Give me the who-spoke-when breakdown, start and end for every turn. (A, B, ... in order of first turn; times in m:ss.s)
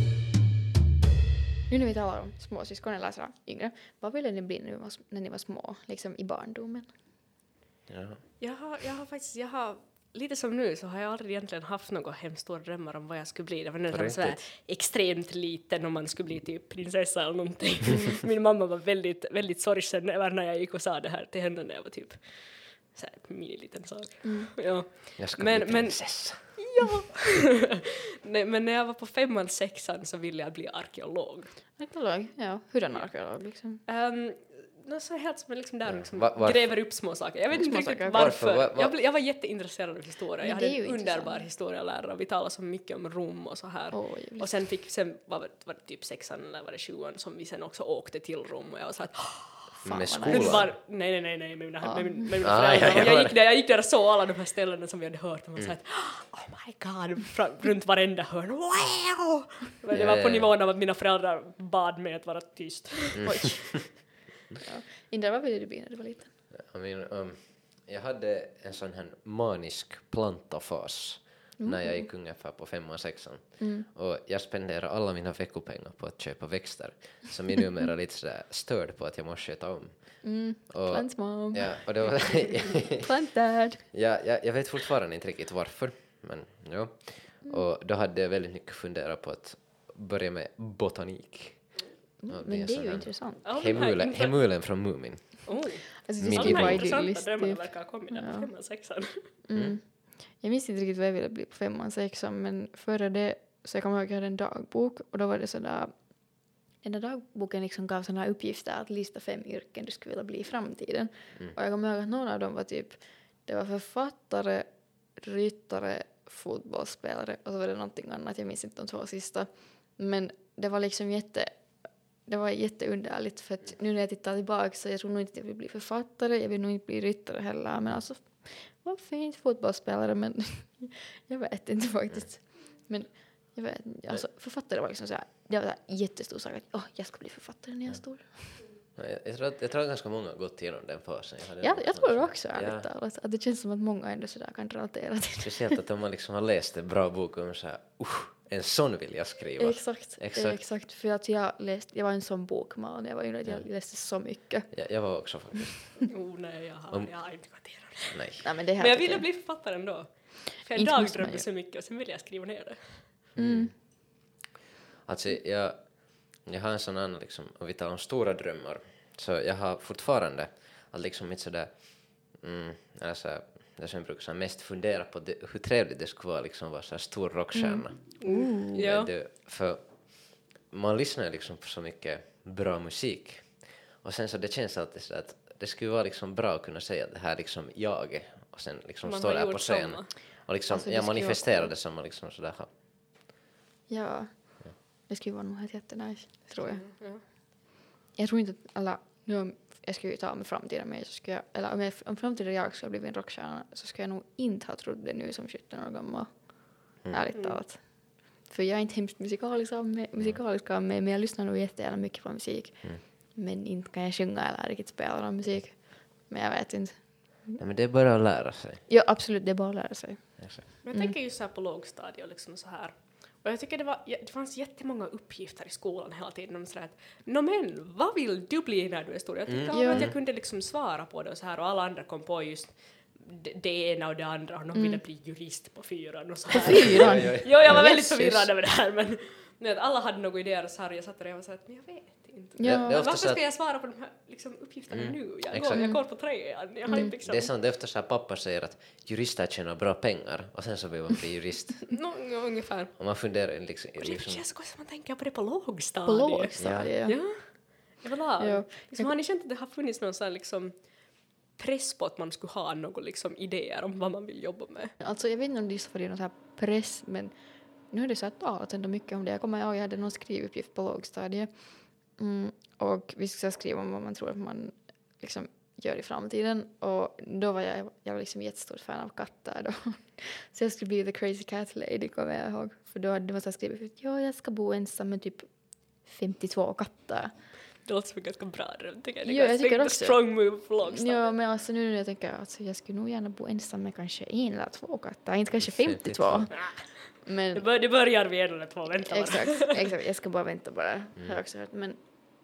0:01.7-0:06.9 A
0:07.9-0:08.2 B
0:08.4-0:22.2 C
0:13.9-0:14.4 B
0:22.8-0:31.5 C
0:24.2-0:24.5 A
0:25.2-0:26.6 B
0:31.8-0:33.8 A
0:33.9-0:49.7 C
0:35.9-0:36.9 B
0:37.5-0:38.3 A
0:37.6-0:39.0 B
0:40.4-0:41.5 A
0:43.9-0:44.6 A
0:49.8-0:50.7 A
0:49.8-0:50.7 B
0:50.3-1:03.6 C
0:51.8-0:52.4 A
0:52.4-0:53.4 B
0:59.9-1:00.5 B
1:03.2-1:03.8 B
1:03.2-1:06.3 A
1:06.5-1:23.0 B
1:11.6-1:12.1 A
1:13.6-1:13.9 A
1:20.2-1:21.7 A
1:23.0-1:23.8 A
1:23.9-1:35.6 B
1:32.2-1:33.4 A
1:33.4-1:34.4 C
1:35.5-1:39.2 C
1:36.0-1:38.5 A
1:36.2-1:36.9 B
1:39.4-1:45.9 A
1:46.8-2:01.5 A
2:02.3-2:18.7 A
2:19.0-2:22.9 B
2:21.6-2:25.8 A
2:25.4-2:30.6 B
2:29.6-2:35.1 A
2:34.7-2:36.2 B
2:36.1-2:43.0 C
2:38.0-2:38.4 B
2:38.4-2:39.3 A
2:40.7-2:41.4 A
2:43.4-2:43.7 A
2:43.4-2:43.7 B
2:45.1-2:58.1 B
2:57.5-2:58.8 A
2:58.2-2:59.1 C
2:58.7-3:12.7 B
3:09.0-3:10.1 C
3:10.7-3:11.7 A
3:13.9-3:16.9 A
3:16.6-3:17.2 C
3:18.1-3:37.6 A
3:37.6-3:38.8 B
3:38.9-3:41.2 A
3:40.4-3:40.6 B
3:40.8-4:07.5 C
3:49.5-3:50.1 B
3:49.7-3:50.1 A
3:54.7-3:55.0 A
3:56.6-3:58.3 A
3:56.7-3:58.5 B
4:02.6-4:03.0 A
4:02.6-4:03.4 B
4:04.9-4:05.9 B
4:05.7-4:06.0 A
4:06.9-4:07.2 A
4:07.1-4:12.0 B
4:11.9-4:12.9 C
4:13.0-4:14.4 B
4:14.0-4:20.7 C
4:16.0-4:17.2 A
4:16.6-4:16.9 B
4:18.4-4:19.1 A
4:21.6-4:24.9 C
4:25.0-4:27.3 A
4:27.9-4:31.5 A
4:32.2-4:45.5 A
4:46.0-4:47.3 A
4:47.8-4:51.3 C
4:49.2-4:57.6 A
4:55.6-4:56.6 B
4:57.5-4:59.8 C
4:59.0-5:02.0 A